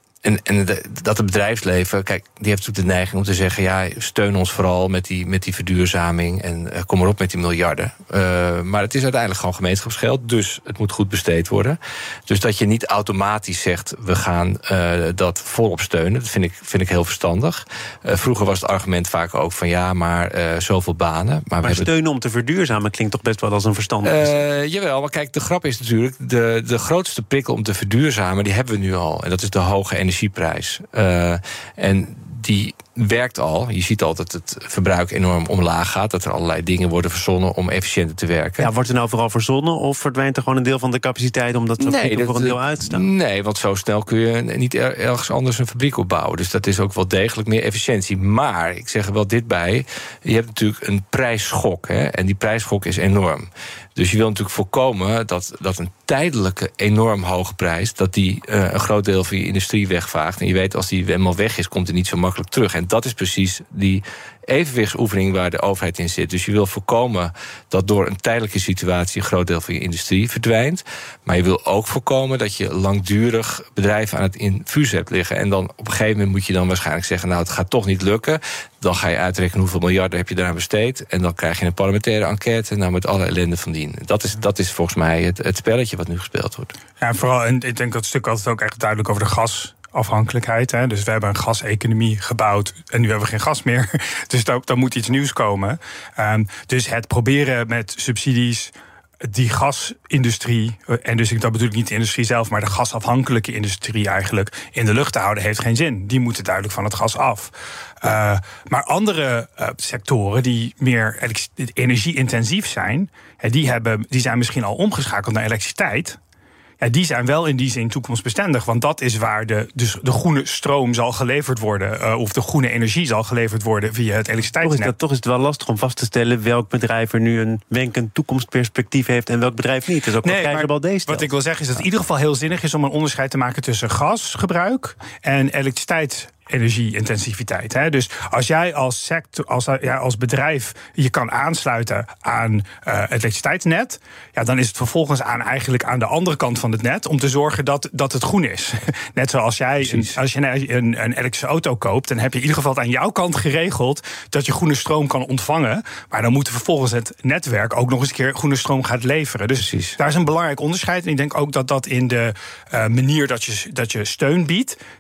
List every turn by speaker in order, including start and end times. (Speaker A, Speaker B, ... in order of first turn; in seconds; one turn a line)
Speaker A: 0.2-21.9
Speaker B: 21.6-24.4
Speaker A: 24.0-38.7
Speaker B: 38.6-43.1
Speaker A: 41.8-86.7
Speaker C: 87.0-98.7
Speaker C: 99.2-116.2
Speaker C: 116.8-124.9
Speaker B: 124.6-131.3
Speaker C: 130.2-164.8
Speaker A: 149.8-150.2
Speaker A: 159.6-160.0